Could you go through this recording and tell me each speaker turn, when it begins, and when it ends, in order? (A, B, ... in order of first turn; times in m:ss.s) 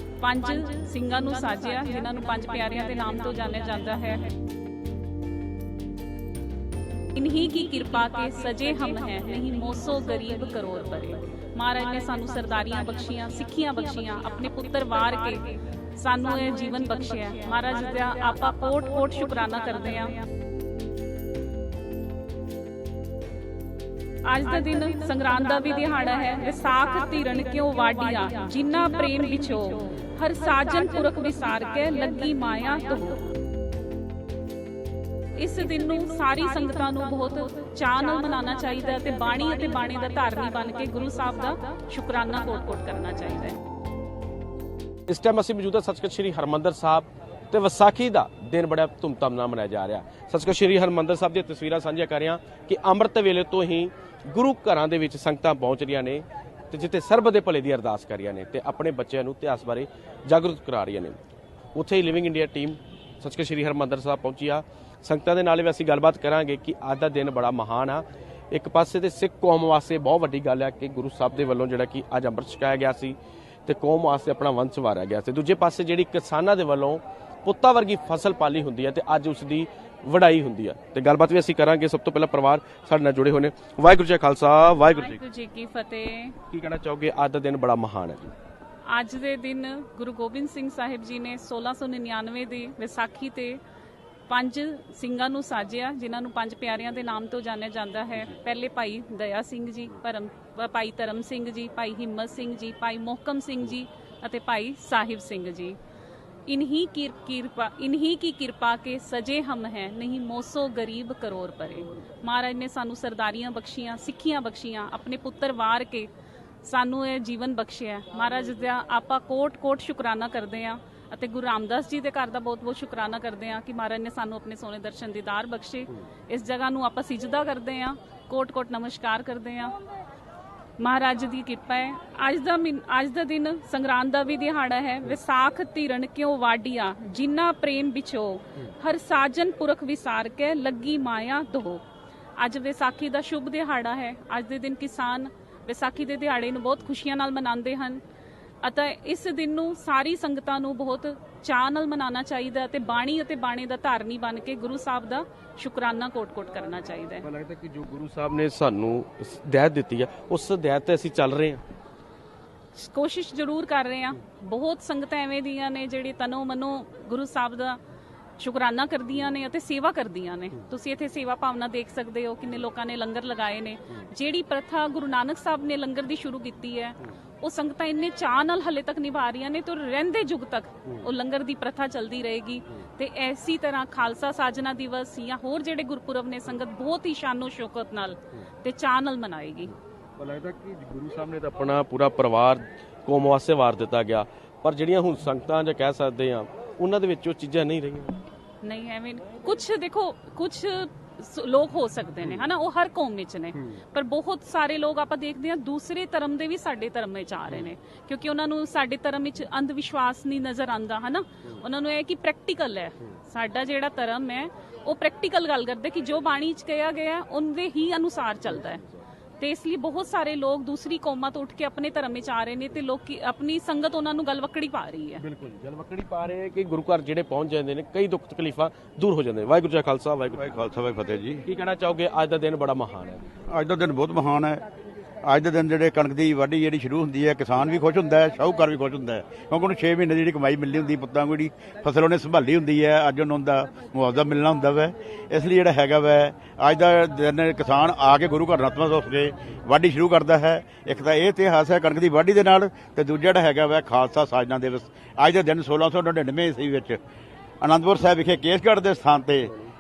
0:00.2-0:04.3 A
0:07.1-0:20.2 A
0:24.2-0:33.3 A
0:35.4-0:43.6 A
0:45.1-1:01.2 B
1:01.7-1:25.2 B
1:25.0-1:26.4 A
1:26.5-1:28.3 B
1:28.9-1:33.6 A
1:34.3-1:45.8 A
1:46.5-1:56.1 A
1:56.6-2:09.7 A
2:10.8-2:21.8 A
2:22.4-2:28.0 A
2:28.6-2:37.2 A
2:37.2-2:41.6 B
2:42.8-2:47.8 A
2:48.4-3:09.7 A
3:10.2-3:18.2 B
3:18.6-3:38.8 A
3:39.4-3:45.2 A
3:45.2-3:50.5 B
3:50.4-3:51.4 C
3:51.4-3:53.3 B
3:53.5-3:54.6 C
3:55.2-4:17.0 C
4:17.6-4:19.5 C